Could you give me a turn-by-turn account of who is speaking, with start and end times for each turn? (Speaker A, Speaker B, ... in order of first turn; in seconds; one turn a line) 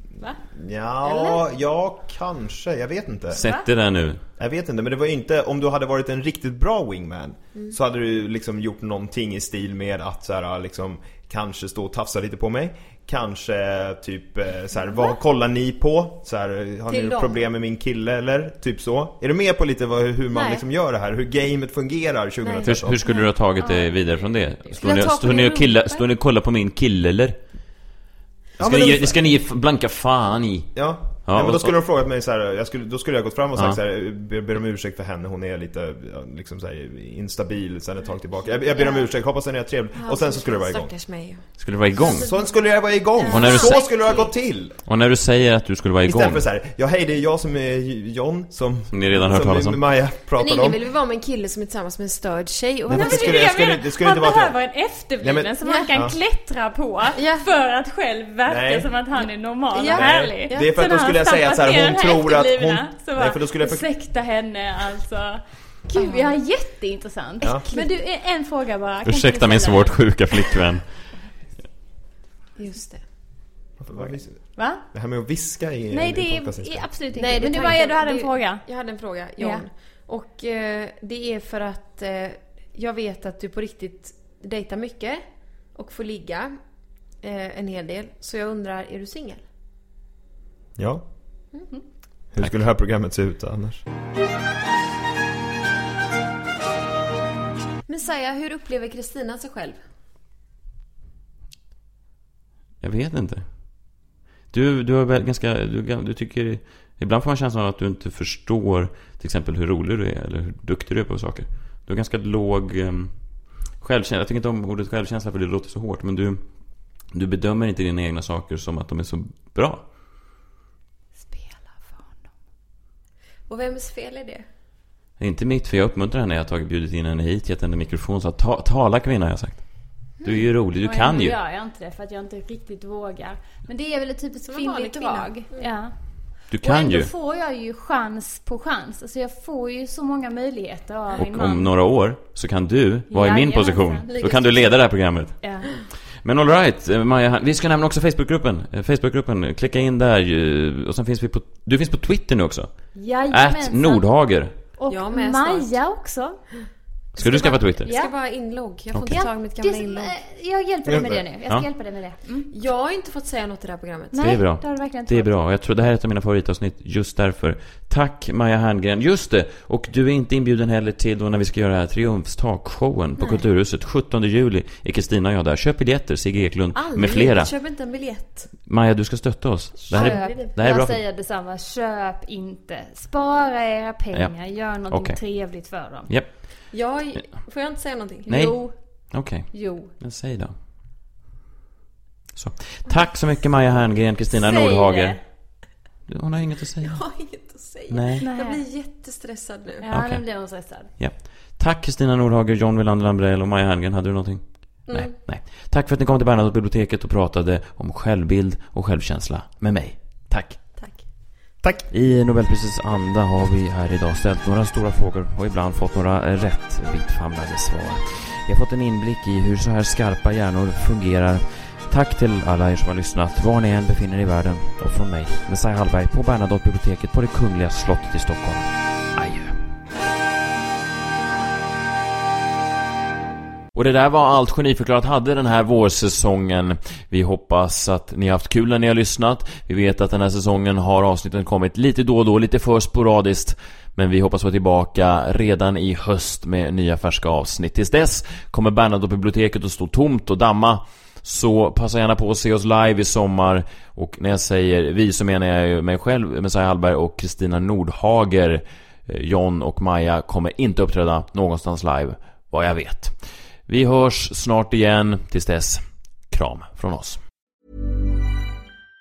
Speaker A: 0.5-3.4
Speaker B: 1.0-1.4
Speaker C: 3.3-4.2
Speaker D: 3.4-3.7
Speaker A: 4.4-23.0
Speaker B: 14.8-15.2
Speaker B: 16.9-17.5
Speaker B: 20.3-20.6
Speaker B: 22.4-22.7
Speaker C: 22.6-27.4
Speaker D: 23.0-24.8
Speaker B: 24.8-26.1
Speaker A: 28.6-29.2
Speaker C: 28.6-31.8
Speaker A: 30.8-40.9
Speaker B: 38.7-39.1
Speaker B: 40.0-44.3
Speaker C: 41.6-42.3
Speaker A: 42.1-44.8
Speaker C: 43.3-43.8
Speaker C: 44.8-46.5
Speaker A: 46.1-50.8
Speaker C: 48.9-49.8
Speaker B: 50.4-53.5
Speaker A: 52.9-54.6
Speaker D: 52.9-70.7
Speaker A: 55.2-56.2
Speaker B: 57.1-57.5
Speaker A: 58.5-59.0
Speaker B: 59.2-60.7
Speaker A: 59.8-63.9
Speaker B: 66.0-66.4
Speaker B: 67.4-68.0
Speaker C: 69.0-71.1
Speaker B: 72.6-73.0
Speaker A: 73.8-77.0
Speaker D: 74.5-74.9
Speaker D: 75.9-78.7
Speaker B: 77.1-86.6
Speaker D: 79.4-79.7
Speaker B: 87.2-89.4
Speaker A: 90.8-91.0
Speaker A: 92.3-93.8
Speaker B: 97.9-99.8
Speaker C: 102.8-104.0
Speaker C: 104.5-116.4
Speaker C: 117.1-119.8
Speaker D: 121.2-122.2
Speaker B: 123.5-124.5
Speaker C: 125.2-131.4
Speaker D: 130.2-141.7
Speaker B: 134.4-135.7
Speaker C: 136.5-137.1
Speaker C: 141.2-145.4
Speaker D: 143.1-144.1
Speaker B: 144.1-144.9
Speaker D: 145.4-145.7
Speaker C: 146.2-154.6
Speaker D: 152.9-154.1
Speaker D: 154.7-156.4
Speaker B: 154.9-155.9
Speaker C: 157.2-157.9
Speaker B: 157.2-160.1
Speaker D: 157.8-158.3
Speaker C: 158.9-159.2
Speaker D: 159.0-162.5
Speaker A: 160.8-161.2
Speaker B: 162.5-164.2
Speaker D: 164.1-165.3
Speaker C: 164.2-177.5
Speaker B: 176.7-178.5
Speaker C: 178.6-181.0
Speaker D: 179.8-186.1
Speaker B: 179.9-180.5
Speaker C: 184.1-185.2
Speaker C: 185.8-186.4
Speaker B: 186.7-188.4
Speaker D: 188.2-189.9
Speaker C: 188.3-190.5
Speaker C: 192.3-195.2
Speaker D: 192.9-193.3
Speaker D: 194.3-195.2
Speaker C: 196.1-197.0
Speaker B: 196.8-199.9
Speaker C: 197.9-198.2
Speaker D: 198.2-198.6
Speaker D: 199.8-200.9
Speaker C: 199.9-210.6
Speaker B: 204.9-205.2
Speaker B: 210.8-211.1
Speaker A: 211.6-211.9
Speaker C: 211.9-229.6
Speaker C: 233.7-263.2
Speaker C: 263.7-267.2